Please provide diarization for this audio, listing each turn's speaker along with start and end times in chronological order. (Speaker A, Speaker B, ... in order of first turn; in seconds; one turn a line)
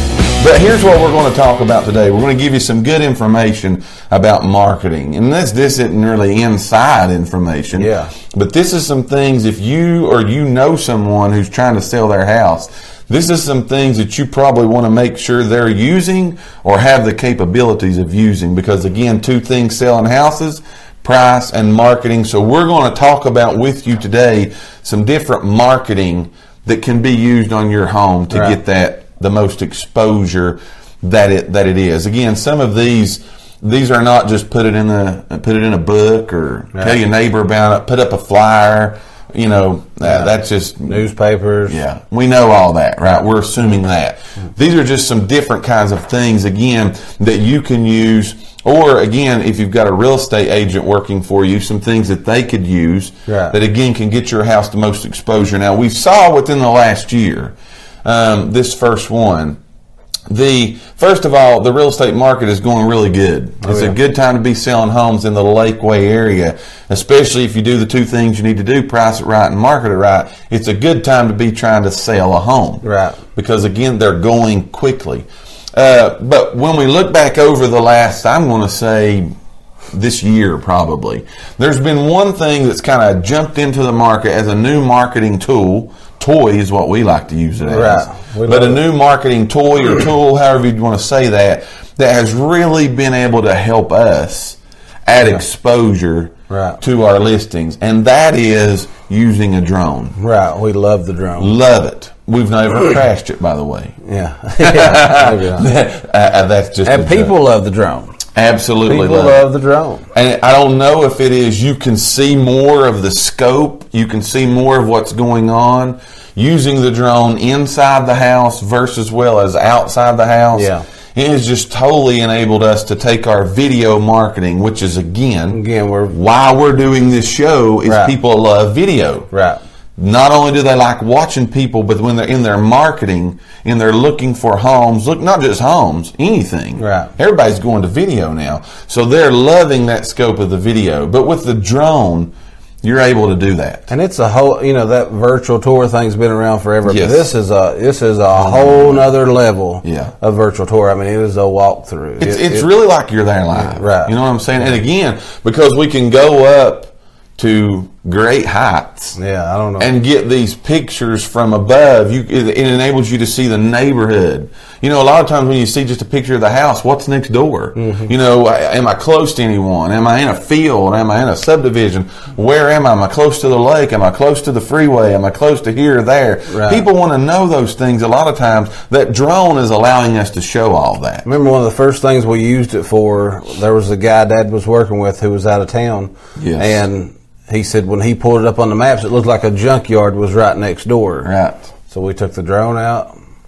Speaker A: 0.4-41.0
Speaker B: 7.7-8.1
Speaker B: 28.3-28.6
Speaker B: 40.0-40.3
Speaker B: 40.9-41.8
Speaker A: 41.7-59.6
Speaker B: 53.3-53.5
Speaker A: 60.3-72.8
Speaker B: 63.6-64.0
Speaker B: 72.8-73.2
Speaker A: 73.3-79.3
Speaker A: 79.9-100.2
Speaker B: 87.7-88.8
Speaker B: 96.5-96.8
Speaker B: 100.2-101.5
Speaker A: 101.4-104.0
Speaker B: 104.0-105.7
Speaker A: 104.6-107.3
Speaker B: 106.8-108.1
Speaker A: 108.3-109.4
Speaker B: 108.8-110.0
Speaker A: 110.1-129.3
Speaker B: 120.5-120.8
Speaker B: 125.5-126.1
Speaker B: 127.8-128.1
Speaker B: 129.3-129.6
Speaker A: 130.0-143.9
Speaker B: 136.8-137.1
Speaker B: 143.9-152.7
Speaker A: 146.8-147.3
Speaker A: 148.3-149.1
Speaker A: 149.8-150.1
Speaker A: 152.2-159.2
Speaker B: 153.5-154.1
Speaker B: 159.2-159.9
Speaker A: 159.8-181.2
Speaker B: 167.8-168.1
Speaker B: 176.5-176.8
Speaker B: 181.2-191.3
Speaker A: 186.4-186.8
Speaker A: 191.2-191.7
Speaker B: 191.9-193.1